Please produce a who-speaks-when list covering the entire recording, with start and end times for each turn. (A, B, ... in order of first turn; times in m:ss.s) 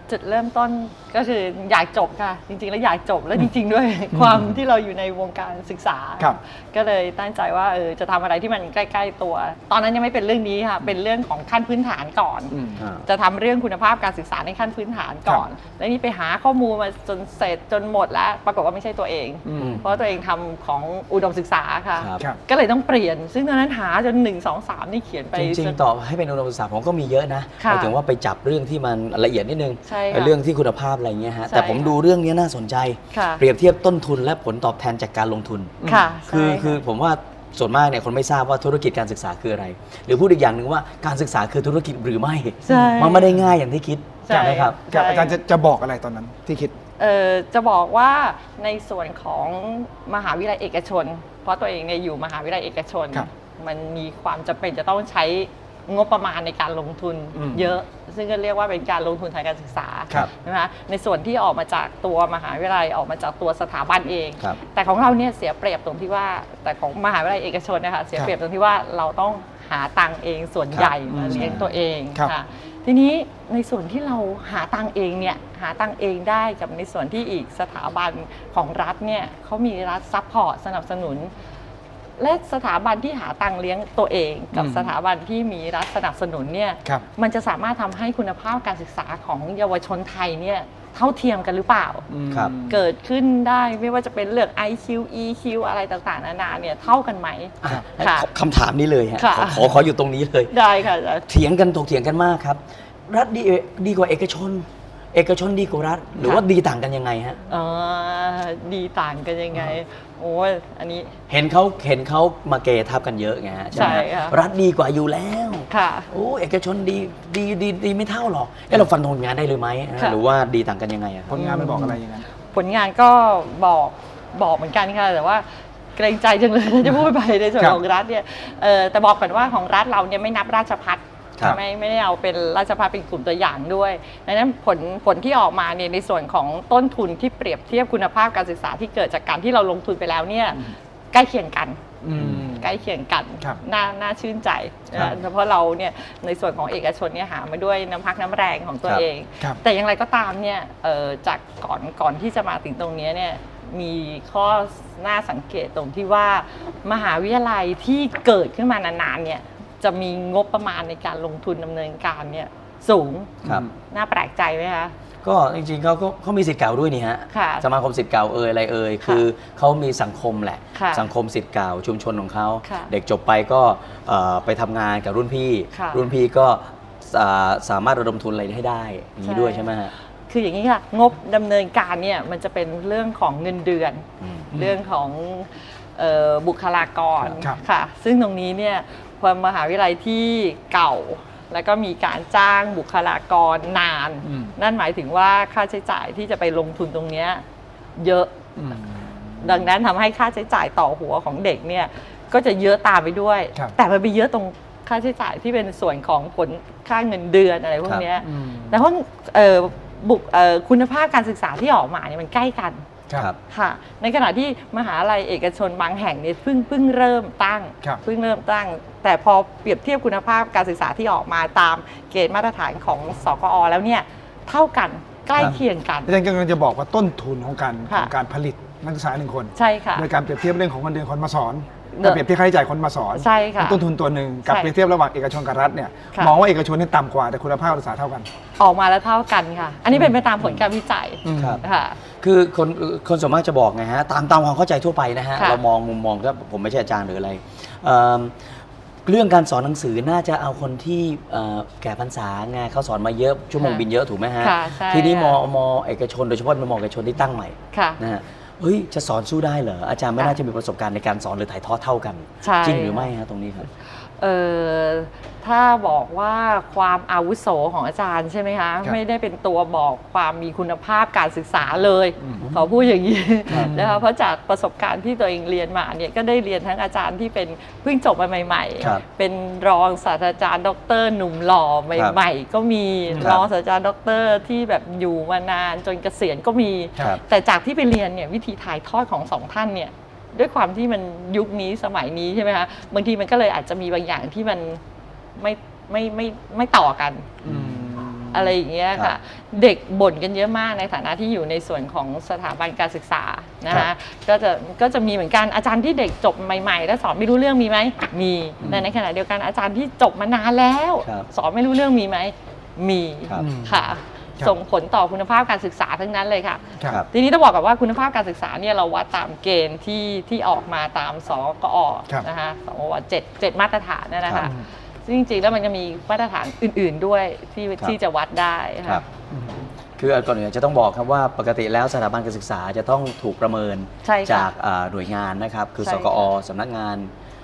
0:00.1-0:25.8 A
0:04.1-0:04.5 B
0:12.5-0:12.8 B
0:12.8-0:13.0 C
0:19.4-0:19.8 B
0:19.6-0:19.8 C
0:22.0-0:22.2 C
0:25.3-0:44.8 C
0:27.6-0:27.9 A
0:29.9-0:30.3 A
0:31.5-0:31.9 A
0:33.1-0:33.4 A
0:35.8-0:36.1 B
0:35.8-0:36.8 A
0:42.7-0:43.4 A
0:42.7-0:43.0 B
0:44.2-0:45.4 A
0:44.3-0:46.8 B
0:47.0-1:21.3 A
0:57.4-0:57.7 B
1:10.7-1:11.7 C
1:11.1-1:11.6 B
1:22.2-1:38.3 A
1:24.5-1:24.9 B
1:32.1-1:32.8 B
1:37.6-1:40.6 C
1:39.2-1:39.7 A
1:40.5-1:41.2 A
1:41.3-1:47.4 C
1:47.5-1:51.2 A
1:51.3-2:01.4 C
1:53.7-1:54.4 A
1:55.7-1:56.1 A
2:01.3-2:02.3 B
2:01.4-2:02.0 A
2:02.5-2:05.4 A
2:06.0-2:45.0 A
2:22.0-2:22.7 B
2:22.2-2:22.5 C
2:45.2-2:59.9 C
2:47.3-2:47.7 A
2:50.8-2:51.1 A
2:52.6-2:52.9 A
2:55.7-2:56.1 A
2:59.2-2:59.7 A
3:00.3-3:17.4 A
3:04.2-3:04.5 C
3:14.2-3:14.5 B
3:18.0-3:18.4 A
3:18.6-3:19.4 B
3:19.4-3:32.8 A
3:28.2-3:28.8 B
3:33.5-3:46.1 A
3:46.0-3:58.3 B
3:49.6-3:50.1 A
3:52.0-3:52.2 A
3:53.2-3:53.8 A
3:58.6-4:02.0 A
4:01.2-4:01.6 B
4:01.4-4:01.6 C
4:02.2-4:08.6 C
4:09.1-4:23.7 C
4:13.6-4:13.8 A
4:14.4-4:15.4 A
4:17.7-4:18.0 A
4:22.4-4:23.1 A
4:23.9-4:54.8 A
4:33.5-4:34.0 B
4:43.2-4:43.4 C
4:55.4-4:57.3 A
4:57.4-4:58.4 C
4:57.4-4:58.0 B
4:58.3-5:29.0 A
5:13.4-5:13.8 B
5:24.3-5:24.5 C
5:29.3-5:29.6 B
5:30.0-5:37.1 C
5:34.0-5:34.5 A
5:35.8-5:36.3 A